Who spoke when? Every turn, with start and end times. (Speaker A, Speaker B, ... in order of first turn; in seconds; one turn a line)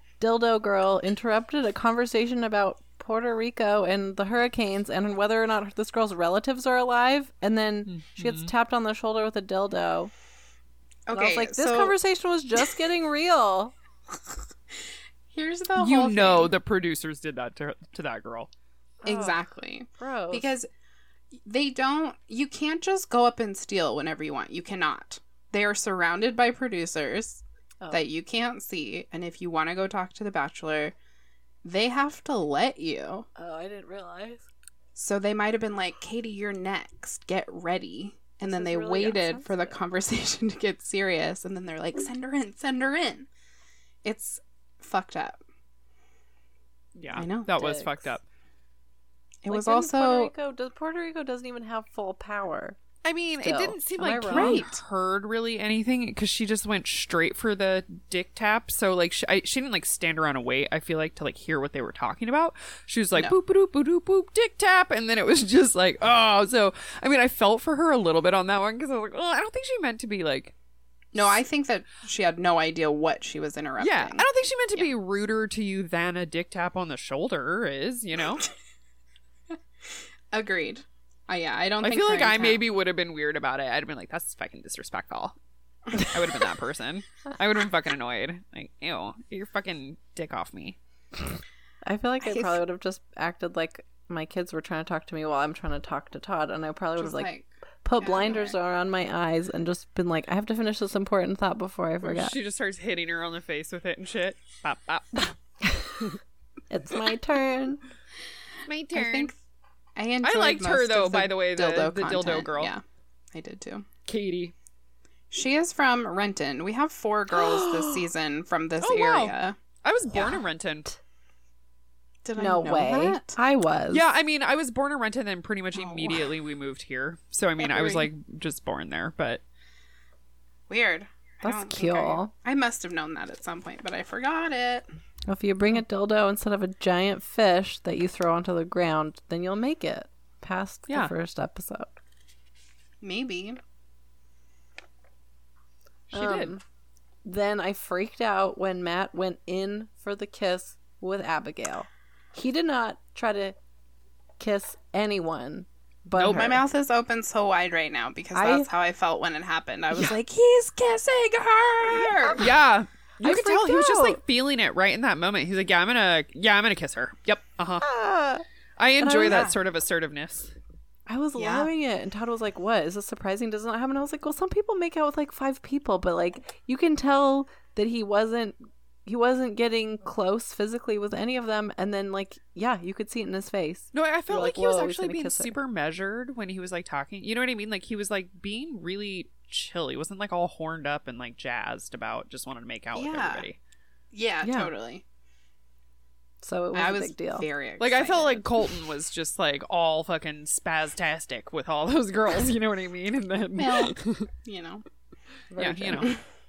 Speaker A: 0.2-10.1
Speaker B: 7.9-8.5
Speaker C: 11.1-12.0
Speaker A: 11.1-13.7
Speaker C: 15.3-16.5
Speaker B: 15.8-18.5
Speaker A: 19.0-19.4
Speaker C: 19.0-20.7
Speaker A: 20.0-20.5
Speaker C: 21.4-30.9
Speaker C: 31.6-33.3
Speaker A: 33.4-34.5
Speaker C: 35.0-43.3
Speaker A: 38.4-39.8
Speaker C: 44.0-45.4
Speaker B: 47.0-48.3
Speaker C: 47.1-47.7
Speaker A: 47.6-47.9
Speaker C: 49.4-50.3
Speaker A: 49.5-52.8
Speaker B: 53.0-70.5
Speaker A: 53.4-54.7
Speaker C: 54.3-54.7
Speaker C: 71.1-74.9
Speaker B: 73.8-78.5
Speaker C: 80.3-82.6
Speaker B: 81.8-85.4
Speaker B: 85.9-90.8
Speaker A: 91.8-97.3
Speaker C: 92.2-92.6
Speaker C: 97.0-98.6
Speaker A: 97.8-102.4
Speaker B: 102.0-105.4
Speaker A: 105.7-106.0
Speaker A: 106.7-107.8
Speaker B: 108.7-109.3
Speaker C: 108.9-109.4
Speaker C: 110.0-113.9
Speaker B: 110.2-112.7
Speaker B: 114.1-114.5
Speaker C: 115.3-119.5
Speaker B: 117.3-118.1
Speaker B: 118.8-120.9
Speaker C: 120.1-120.4
Speaker C: 122.2-123.4
Speaker A: 122.4-124.0
Speaker B: 123.9-129.4
Speaker C: 125.8-126.3
Speaker C: 127.6-128.1
Speaker C: 130.7-134.9
Speaker A: 131.4-132.3
Speaker A: 135.3-142.0
Speaker C: 143.0-143.6
Speaker B: 146.1-146.6
Speaker A: 146.1-146.6
Speaker A: 147.2-153.6
Speaker A: 154.4-156.6
Speaker B: 156.2-156.5
Speaker C: 156.2-162.5
Speaker A: 158.3-158.7
Speaker A: 162.2-162.4
Speaker B: 162.4-167.9
Speaker A: 163.2-164.2
Speaker A: 167.8-168.4
Speaker B: 168.8-170.5
Speaker A: 169.0-169.5
Speaker C: 169.3-169.6
Speaker A: 171.1-185.6
Speaker C: 171.4-171.7
Speaker B: 183.9-193.6
Speaker C: 192.9-193.5
Speaker C: 194.1-195.0
Speaker A: 194.4-194.7
Speaker A: 196.4-197.5
Speaker C: 196.7-198.5
Speaker B: 197.8-204.3
Speaker C: 203.6-204.8
Speaker A: 205.5-206.2
Speaker B: 205.6-206.2